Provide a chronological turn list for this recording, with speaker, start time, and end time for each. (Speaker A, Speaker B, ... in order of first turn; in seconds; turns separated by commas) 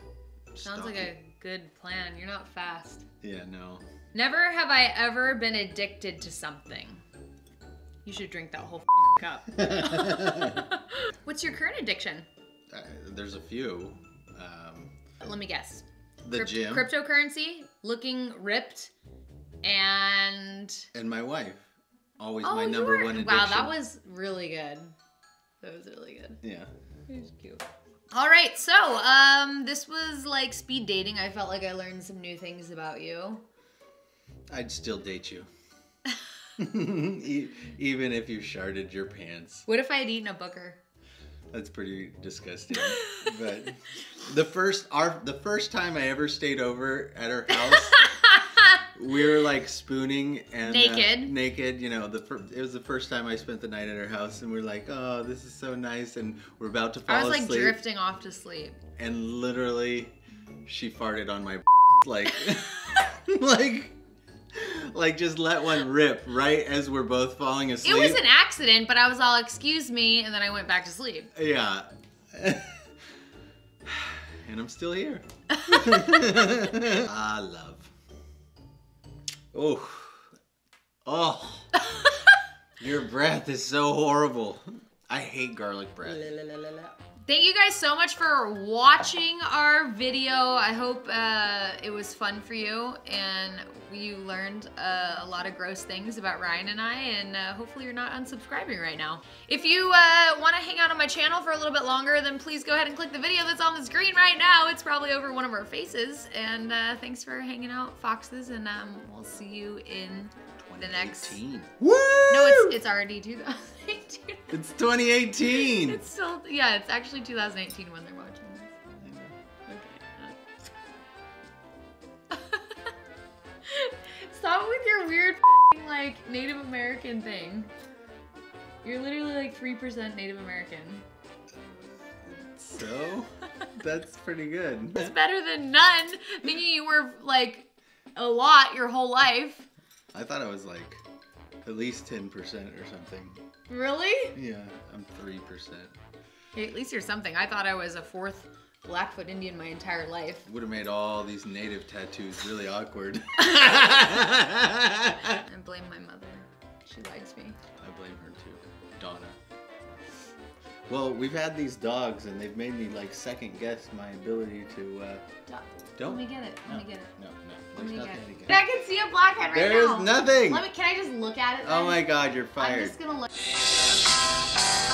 Speaker A: 0.5-1.1, Speaker B: 0.6-3.0, Speaker A: 3.2-3.8, Speaker B: 4.1-7.0, Speaker B: 8.0-12.3, Speaker A: 9.5-10.6, Speaker A: 12.7-14.9, Speaker B: 15.2-18.9, Speaker A: 16.2-16.9, Speaker B: 19.6-20.9, Speaker A: 20.9-21.6, Speaker A: 22.2-23.7, Speaker B: 22.4-24.9, Speaker B: 25.6-26.4, Speaker A: 26.4-26.7, Speaker B: 27.1-33.4, Speaker A: 34.5-35.5, Speaker A: 36.6-39.6, Speaker B: 39.7-40.8, Speaker A: 41.5-48.1, Speaker B: 42.8-43.5, Speaker B: 47.6-48.8, Speaker A: 48.9-57.8, Speaker B: 50.6-51.4, Speaker B: 57.1-58.8, Speaker A: 59.0-64.0, Speaker A: 64.5-68.2, Speaker B: 67.8-71.3, Speaker A: 71.3-72.8, Speaker A: 73.8-77.9, Speaker B: 75.6-76.1, Speaker A: 79.5-80.3, Speaker A: 81.0-81.7, Speaker A: 82.8-86.3, Speaker B: 86.6-111.4, Speaker A: 110.6-112.8, Speaker B: 112.3-114.6, Speaker A: 114.5-116.0, Speaker B: 115.4-118.8, Speaker A: 119.0-119.4, Speaker B: 119.7-120.4, Speaker B: 122.3-122.9, Speaker B: 123.6-127.7, Speaker B: 128.8-131.0, Speaker A: 131.5-135.1, Speaker B: 134.9-139.7, Speaker A: 140.1-141.0, Speaker A: 141.6-143.4, Speaker B: 143.7-144.3, Speaker A: 144.3-145.9, Speaker B: 146.5-150.4, Speaker A: 150.4-155.4, Speaker B: 153.6-153.8, Speaker B: 155.2-157.6, Speaker A: 157.8-159.4, Speaker A: 160.9-165.2, Speaker B: 165.5-167.1, Speaker A: 166.0-168.6, Speaker B: 167.7-173.5, Speaker A: 169.5-170.6, Speaker A: 171.6-173.0